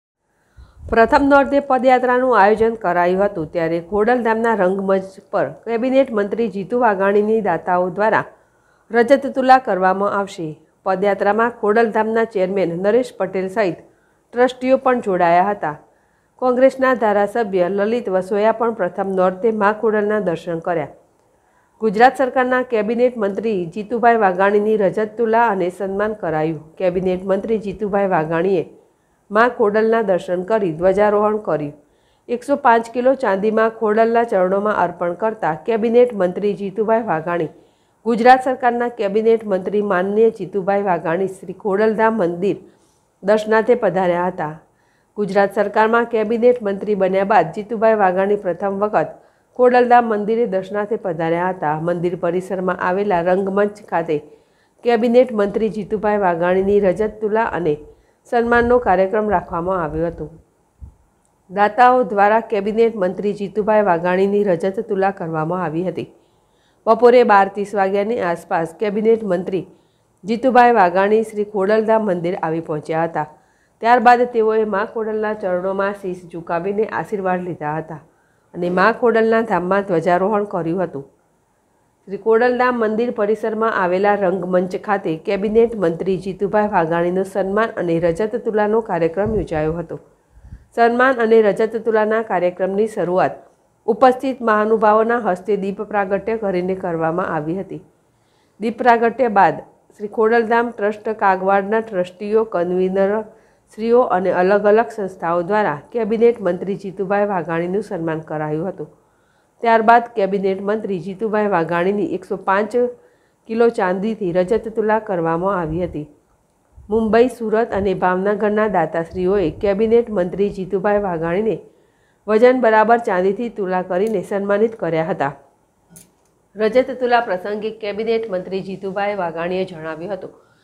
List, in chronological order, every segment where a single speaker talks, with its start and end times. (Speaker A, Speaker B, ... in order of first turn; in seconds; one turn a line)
Speaker A: 0.9-8.2
Speaker A: 8.9-15.8
Speaker A: 16.4-20.9
Speaker A: 21.8-28.7
Speaker A: 29.3-31.7
Speaker A: 32.3-37.5
Speaker A: 38.0-42.6
Speaker A: 43.3-44.5
Speaker A: 45.2-54.2
Speaker A: 54.8-60.3
Speaker A: 61.5-66.1
Speaker A: 66.9-69.6
Speaker A: 70.2-73.3
Speaker A: 73.8-78.0
Speaker A: 78.5-81.0
Speaker A: 82.1-90.0
Speaker A: 90.7-93.4
Speaker A: 93.9-97.8
Speaker A: 98.6-108.9
Speaker A: 109.6-112.9
Speaker A: 113.5-116.1
Speaker A: 116.9-121.6
Speaker A: 122.3-125.3
Speaker A: 126.6-130.3